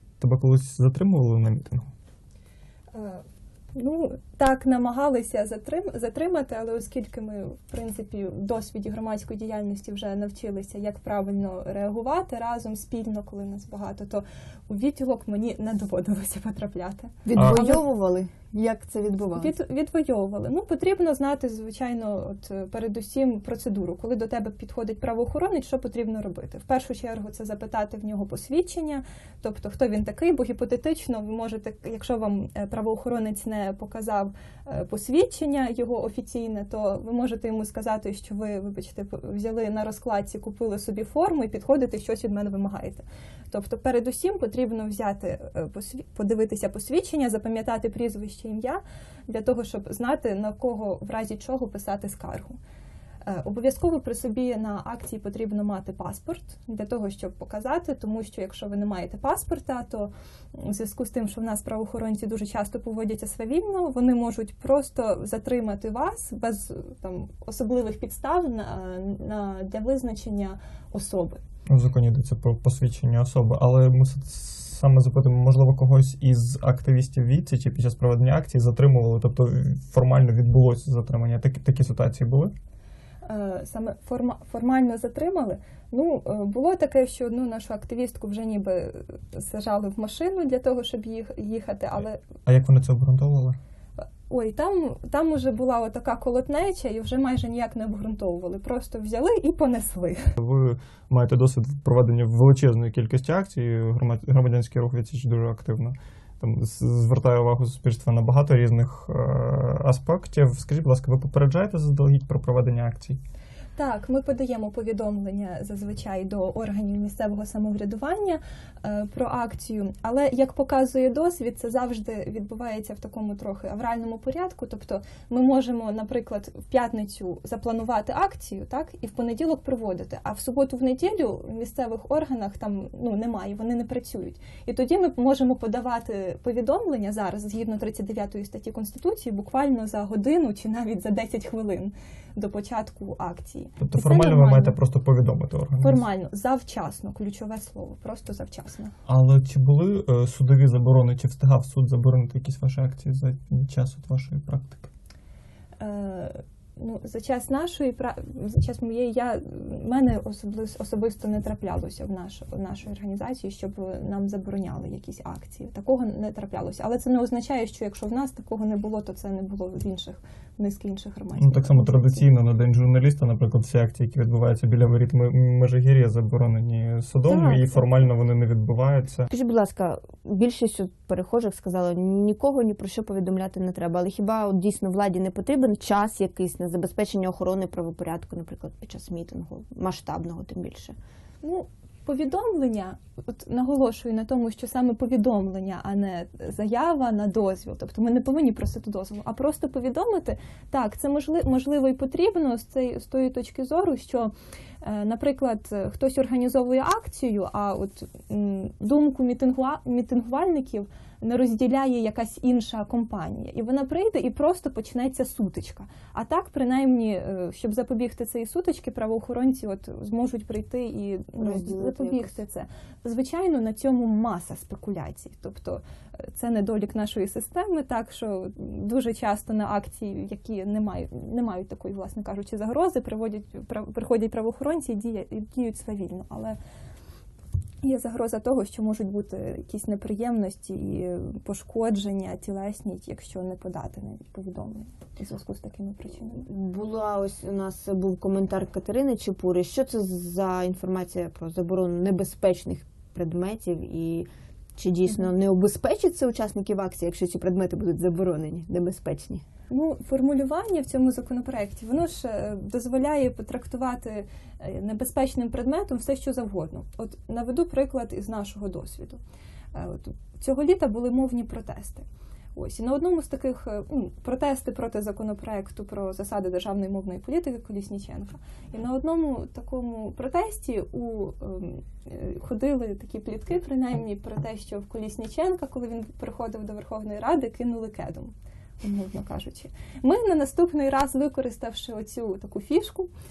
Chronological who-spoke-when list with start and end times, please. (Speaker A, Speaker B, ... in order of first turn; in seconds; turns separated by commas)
Speaker A: 0.2-1.9, Speaker B: 2.9-17.8, Speaker C: 17.3-19.5, Speaker A: 17.4-17.8, Speaker B: 19.3-52.6, Speaker B: 53.2-71.4, Speaker A: 71.7-82.5, Speaker B: 83.2-92.2, Speaker A: 92.0-93.6, Speaker B: 94.3-100.4, Speaker A: 100.4-113.2, Speaker B: 113.8-144.8, Speaker A: 143.8-146.1, Speaker B: 145.8-148.9, Speaker A: 149.1-154.9, Speaker B: 155.8-172.3, Speaker A: 171.4-179.3, Speaker C: 177.3-177.8, Speaker C: 179.3-191.0, Speaker B: 191.4-236.6, Speaker C: 221.4-222.3, Speaker B: 237.8-246.5, Speaker C: 246.4-259.4, Speaker B: 259.7-269.2, Speaker B: 269.7-293.1